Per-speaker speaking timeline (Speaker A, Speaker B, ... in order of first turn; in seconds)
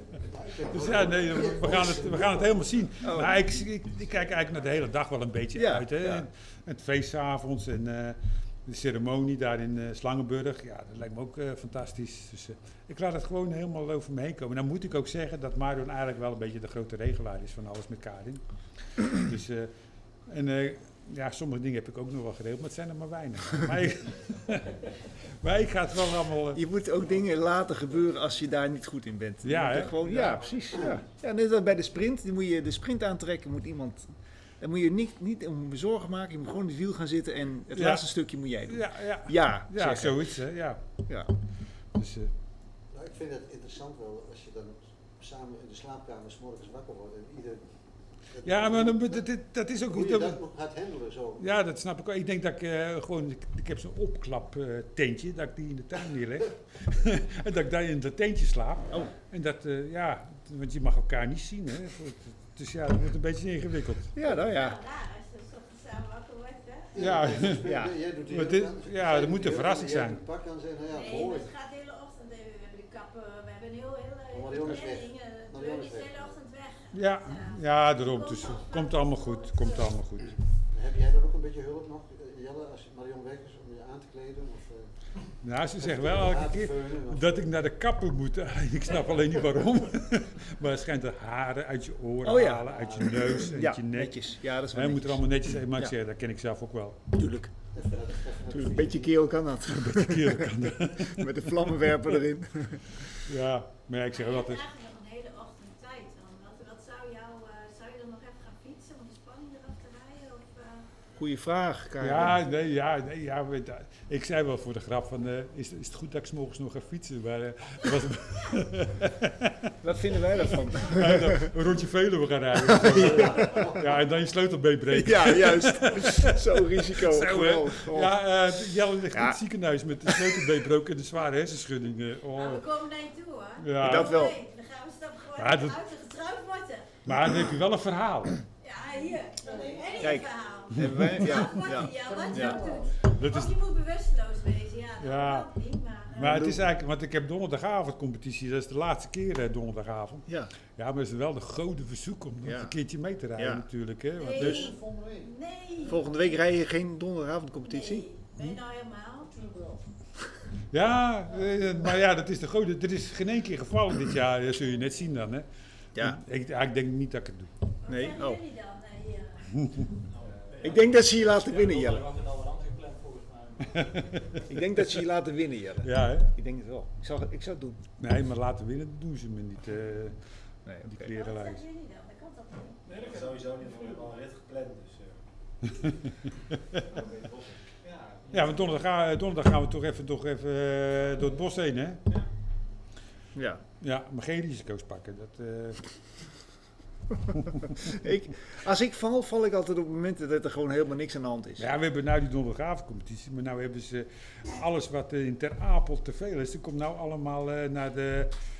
Speaker A: 0.2-2.6, 42.9-47.7, 48.3-49.2, 49.9-51.5, 66.9-71.5, 74.3-76.4, 80.7-84.9, 85.8-87.3, 92.7-93.3, 97.7-99.2, 154.7-155.3
Speaker B: 0.6-18.4, 18.9-19.7, 20.3-26.6, 29.4-30.2, 37.7-38.1, 38.7-40.8, 41.9-42.3, 48.4-50.4, 51.4-64.1, 67.0-67.7, 68.3-70.2, 76.9-80.4, 85.4-97.0, 99.7-102.0, 103.2-104.6, 112.0-119.7, 120.8-132.7, 133.6-134.2, 135.4-135.8, 137.1-138.4, 140.7-141.4, 143.0-143.6, 145.0-145.5, 146.1-154.8, 160.7-165.5, 166.0-167.5, 169.5-169.9, 173.7-174.4, 175.8-176.3, 178.0-180.2, 180.8-181.6, 185.6-187.0, 188.3-192.0, 193.8-195.9, 201.6-208.4
Speaker C: 3.0-3.4, 5.5-6.2, 26.6-40.3, 41.1-41.3, 64.2-64.8, 67.6-68.0, 92.2-95.9, 97.1-97.5, 98.5-103.1, 111.2-112.4, 119.8-121.5, 122.6-123.8, 124.9-128.2, 129.1-129.4, 130.1-130.4, 133.8-134.4, 140.0-142.7, 146.2-146.7, 152.4-152.8, 153.3-153.7, 154.4-154.7, 155.8-158.6, 165.9-166.2, 167.9-168.4, 170.6-172.1, 174.5-177.8, 180.7-181.1, 193.3-193.6, 197.2-201.7
Speaker D: 64.2-67.0, 70.9-79.9, 104.2-110.9, 132.4-137.0, 138.6-146.3, 154.2-156.2, 157.7-159.4, 167.8-169.7, 181.1-182.8
Speaker E: 170.4-174.4, 182.9-184.9